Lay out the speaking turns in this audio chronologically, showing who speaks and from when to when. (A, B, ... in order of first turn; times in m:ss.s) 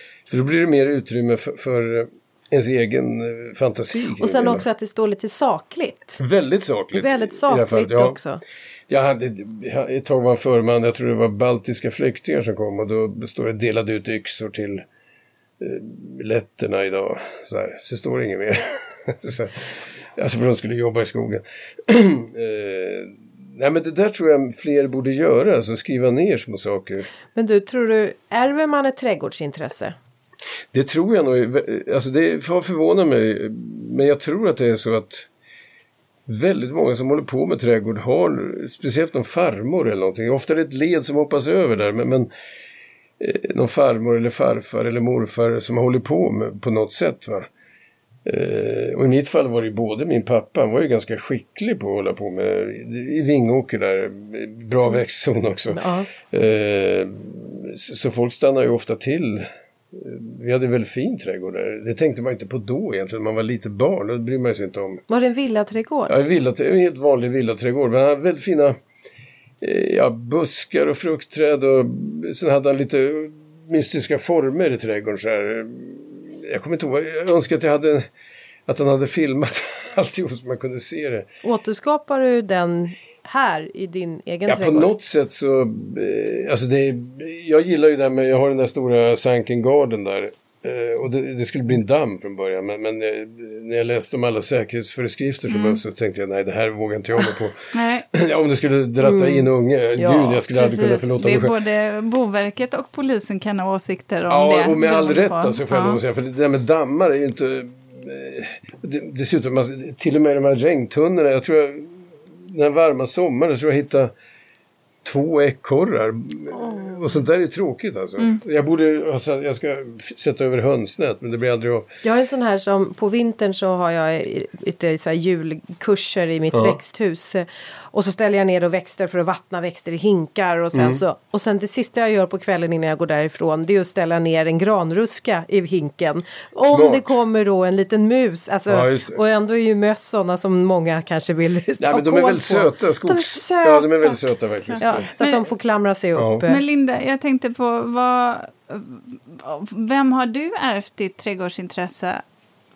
0:00.3-0:04.6 A
0:04.2-0:06.2 B
0:06.2-0:08.2 A
0:06.9-0:08.4 B
0:08.9-0:14.8 A
0:15.6-0:27.1 A
0:27.4-0:30.0 B
0:30.7-0:35.3 A
0:36.3-0:42.3 A
0:43.2-0:47.5 A
0:48.2-1:05.0 A
0:55.7-0:56.1 B
1:05.1-1:06.2 B
1:06.1-1:08.8 A
1:09.6-1:18.1 A
1:18.7-1:21.3 A
1:21.4-1:24.9 B
1:24.5-1:41.5 A
1:35.5-1:35.8 C
1:37.7-1:38.1 C
1:39.0-1:40.4 B
1:40.5-1:46.0 C
1:44.3-1:54.1 A
1:55.0-2:01.9 A
1:56.6-1:57.1 B
2:02.0-2:24.1 B
2:06.5-2:06.8 A
2:10.7-2:11.0 A
2:16.6-2:17.2 A
2:18.7-2:19.2 A
2:21.8-2:25.1 A
2:24.7-2:25.4 C
2:24.8-2:26.6 B
2:26.2-2:26.4 A
2:26.5-2:32.2 C